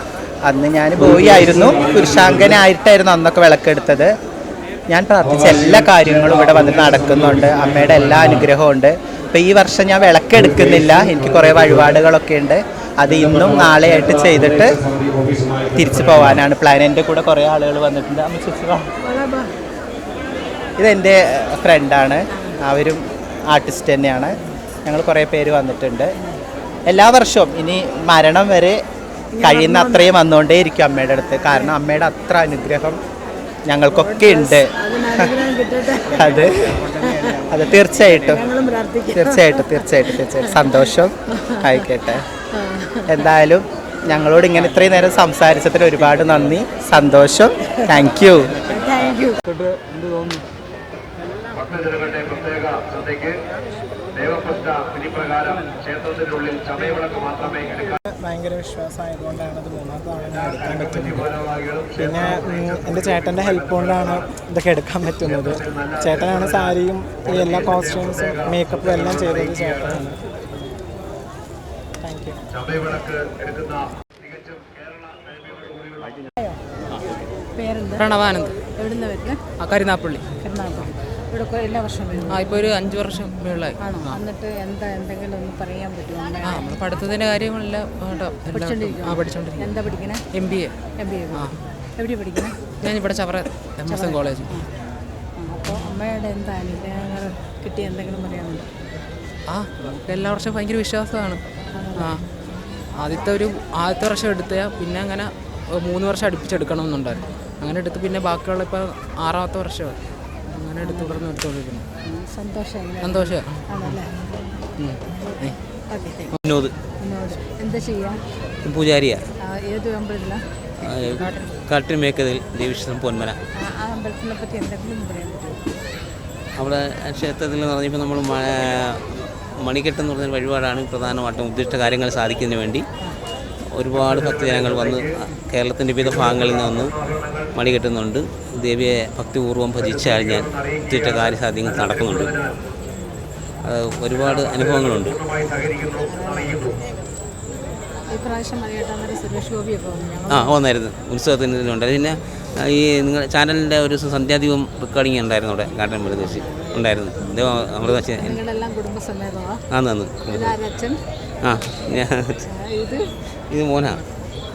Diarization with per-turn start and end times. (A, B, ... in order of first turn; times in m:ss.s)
0:00.4-0:04.1 A
0:04.9-0:14.8 A
0:14.9-0:15.7 B
0:15.7-0:18.9 A
0:19.0-0:19.5 C
0:20.8-0:26.1 A
0:22.3-0:22.6 C
0:26.9-0:28.8 A
0:29.3-0:30.1 C
0:29.4-0:33.0 A
0:31.4-0:31.7 C
0:33.7-0:34.7 A
0:33.9-0:37.5 C
0:36.1-0:36.8 A
0:37.0-0:37.4 D
0:37.5-0:38.5 A
0:38.1-0:41.9 C
0:39.1-0:42.2 A
0:42.5-0:43.2 C
0:43.1-0:48.5 A
0:48.6-0:49.4 C
0:51.7-0:53.4 B
0:55.0-0:55.4 B
0:56.0-0:57.8 B
0:58.1-1:01.4 D
1:01.9-1:10.2 D
1:12.0-1:12.4 D
1:13.0-1:13.7 B
1:14.3-1:15.9 B
1:17.5-1:18.1 C
1:18.0-1:18.6 E
1:18.7-1:19.4 C
1:19.6-1:20.2 E
1:20.4-1:22.5 C
1:22.3-1:24.2 E
1:23.8-1:26.6 C
1:26.4-1:30.8 E
1:28.5-1:30.2 C
1:31.0-1:31.4 C
1:32.0-1:32.7 C
1:32.8-1:34.6 E
1:33.9-1:34.7 C
1:35.4-1:38.7 C
1:39.5-1:41.4 E
1:41.7-1:42.1 C
1:42.0-1:42.2 E
1:43.0-1:50.0 E
1:50.5-1:51.8 E
1:50.8-1:51.2 C
1:52.0-1:54.1 C
1:53.0-1:54.0 E
1:54.8-1:55.6 E
1:55.2-1:56.3 C
1:56.4-1:56.7 F
1:57.0-1:58.2 C
1:58.6-1:59.2 F
1:59.4-2:00.4 C
2:00.8-2:03.4 F
2:01.0-2:01.5 E
2:03.6-2:05.6 C
2:06.6-2:12.9 F
2:13.7-2:17.0 F
2:17.5-2:22.4 F
2:22.9-2:23.2 C
2:23.6-2:25.2 F
2:26.0-2:26.8 C
2:28.1-2:30.6 C
2:30.3-2:38.4 F
2:36.3-2:36.7 C
2:38.1-2:39.6 C
2:39.7-2:40.6 F
2:40.3-2:41.0 C
2:41.4-2:42.3 F
2:42.4-2:43.0 C
2:43.5-2:44.0 F